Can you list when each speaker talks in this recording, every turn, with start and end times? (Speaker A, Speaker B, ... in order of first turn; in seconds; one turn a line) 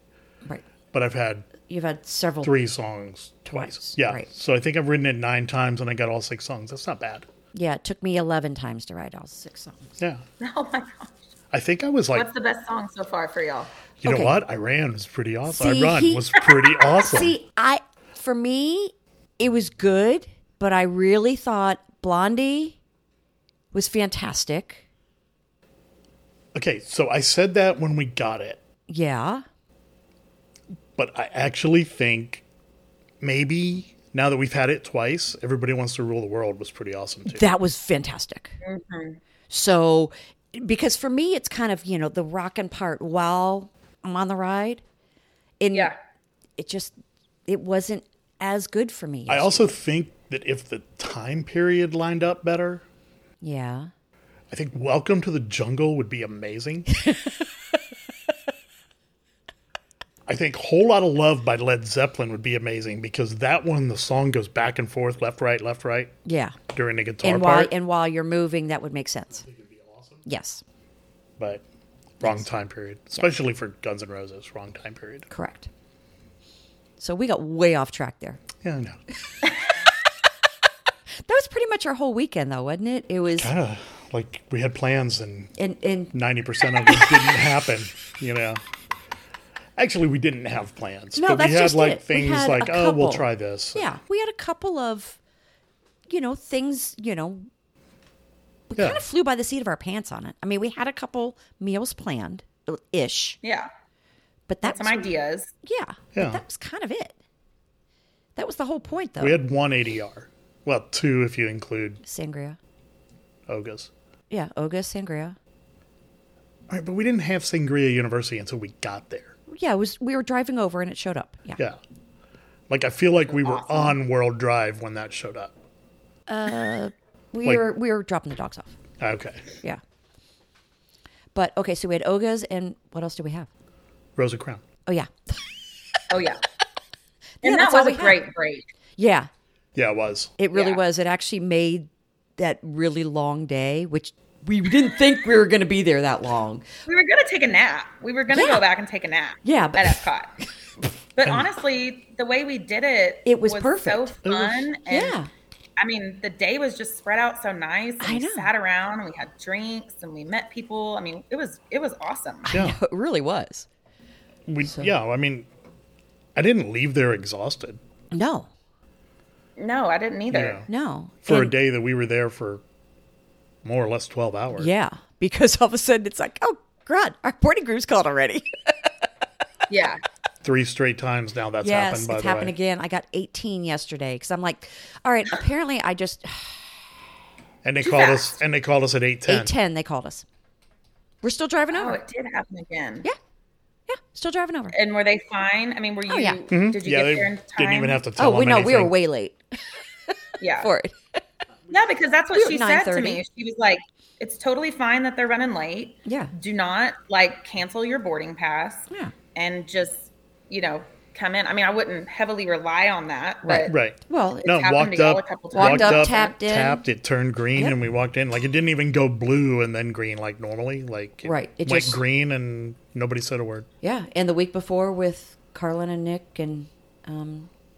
Speaker A: 0.9-1.5
Speaker B: 1.7-2.5
Speaker A: 2.4-7.3
Speaker B: 3.5-4.3
Speaker B: 7.5-10.0
Speaker C: 10.4-11.1
Speaker A: 11.5-12.3
Speaker C: 12.2-13.7
Speaker A: 14.0-17.4
Speaker B: 14.0-14.3
Speaker B: 15.5-16.4
Speaker B: 17.0-22.8
Speaker B: 23.7-24.8
Speaker A: 26.5-28.6
Speaker B: 28.9-29.4
Speaker A: 31.0-32.4
Speaker A: 33.2-37.5
Speaker B: 37.3-38.6
Speaker C: 38.6-39.2
Speaker B: 39.5-44.8
Speaker B: 45.6-45.9
Speaker B: 46.6-47.0
Speaker B: 47.5-49.6
Speaker A: 49.3-52.8
Speaker B: 53.4-53.9
Speaker A: 54.5-56.9
Speaker B: 56.9-57.4
Speaker A: 60.3-66.1
Speaker B: 66.2-66.6
Speaker A: 66.7-67.7
Speaker B: 67.2-69.5
Speaker A: 69.4-70.2
Speaker B: 70.3-70.6
Speaker A: 71.4-71.6
Speaker A: 72.2-75.3
Speaker B: 72.2-72.5
Speaker B: 75.3-75.7
Speaker B: 77.0-78.4
Speaker A: 78.6-79.0
Speaker B: 81.2-83.5
Speaker A: 83.4-85.5
Speaker B: 85.6-86.1
Speaker A: 86.1-88.6
Speaker B: 86.8-87.4
Speaker A: 89.8-93.9
Speaker B: 91.2-95.2
Speaker B: 96.1-97.5
Speaker B: 98.7-103.4
Speaker A: 98.8-99.0
Speaker C: 103.4-103.7
Speaker B: 104.5-105.1
Speaker C: 104.6-105.5
Speaker B: 105.6-107.2
Speaker A: 106.2-106.4
Speaker B: 108.4-109.4
Speaker A: 109.2-112.0
Speaker B: 112.0-112.6
Speaker A: 113.5-113.9
Speaker B: 114.3-115.4
Speaker A: 116.7-119.3
Speaker B: 119.5-121.6
Speaker A: 122.7-125.5
Speaker C: 123.3-124.0
Speaker B: 126.3-128.8
Speaker A: 129.0-129.5
Speaker B: 131.3-133.5
Speaker A: 134.2-134.6
Speaker B: 134.9-135.4
Speaker C: 136.1-136.4
Speaker B: 137.4-138.2
Speaker C: 137.4-138.7
Speaker B: 139.0-139.3
Speaker A: 139.8-140.3
Speaker B: 140.4-146.7
Speaker C: 140.5-140.8
Speaker C: 146.9-150.3
Speaker B: 148.3-148.6
Speaker B: 149.4-150.0
Speaker C: 151.2-155.2
Speaker B: 153.3-154.1
Speaker A: 154.2-154.7
Speaker B: 154.9-155.3
Speaker C: 155.8-162.5
Speaker B: 158.0-158.5
Speaker A: 162.5-162.8
Speaker B: 162.5-163.7
Speaker A: 164.5-165.5
Speaker A: 166.3-167.8
Speaker B: 168.1-168.5
Speaker C: 169.6-170.6
Speaker A: 170.3-170.7
Speaker B: 170.7-171.6
Speaker A: 171.2-172.6
Speaker A: 173.6-174.7
Speaker B: 174.6-178.5
Speaker C: 179.7-180.0
Speaker A: 180.4-182.5
Speaker B: 181.6-186.8
Speaker A: 187.6-189.5
Speaker C: 187.8-188.3
Speaker B: 189.3-190.2
Speaker B: 191.2-192.0
Speaker C: 191.7-193.1
Speaker B: 193.9-194.8
Speaker C: 194.7-198.0
Speaker B: 196.1-196.4
Speaker A: 196.5-198.9
Speaker B: 198.2-199.4
Speaker B: 200.1-201.0
Speaker C: 200.4-200.7
Speaker C: 201.7-213.8
Speaker B: 202.3-203.2
Speaker B: 206.1-206.3
Speaker B: 213.4-214.5
Speaker A: 213.7-223.7
Speaker C: 214.4-216.3
Speaker B: 215.5-216.8
Speaker B: 221.2-222.0
Speaker B: 223.8-227.5